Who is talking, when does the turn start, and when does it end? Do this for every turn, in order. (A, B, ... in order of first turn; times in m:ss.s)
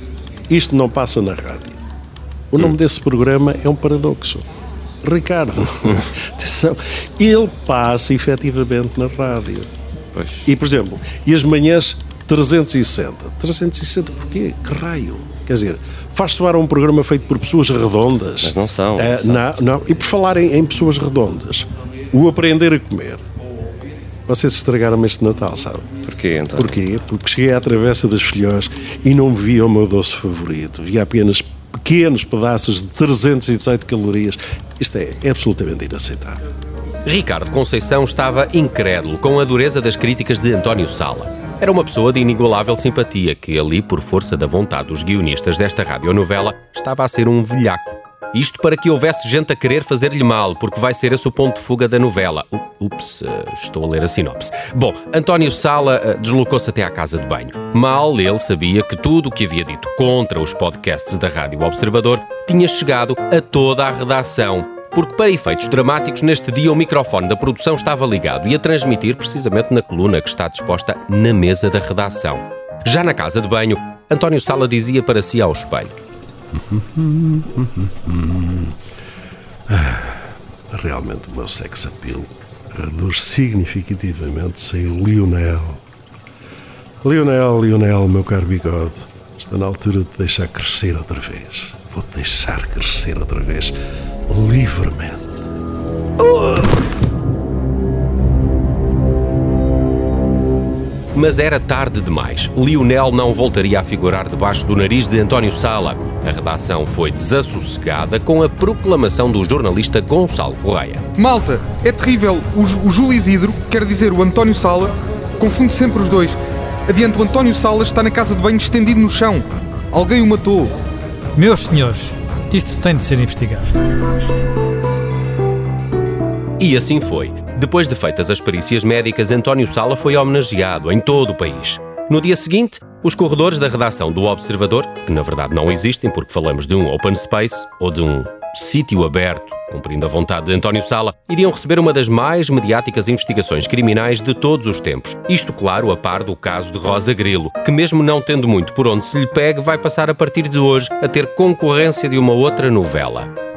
0:00.5-0:01.8 A
0:02.5-0:04.4 A
0:05.0-0:09.7 A
0:10.1-0:10.5 B
0:10.4-0:23.2 A
0:18.4-0:19.5 B
0:24.3-0:25.9 A
0:26.0-0:26.8 B
0:26.6-0:36.4 A
0:37.0-1:15.9 C
1:16.5-1:18.8 A
1:19.7-1:25.8 A
1:27.0-1:33.7 A
1:34.3-1:35.4 A
1:41.1-1:51.0 C
1:51.2-2:00.7 D
2:01.4-2:03.7 E
2:06.6-2:33.3 C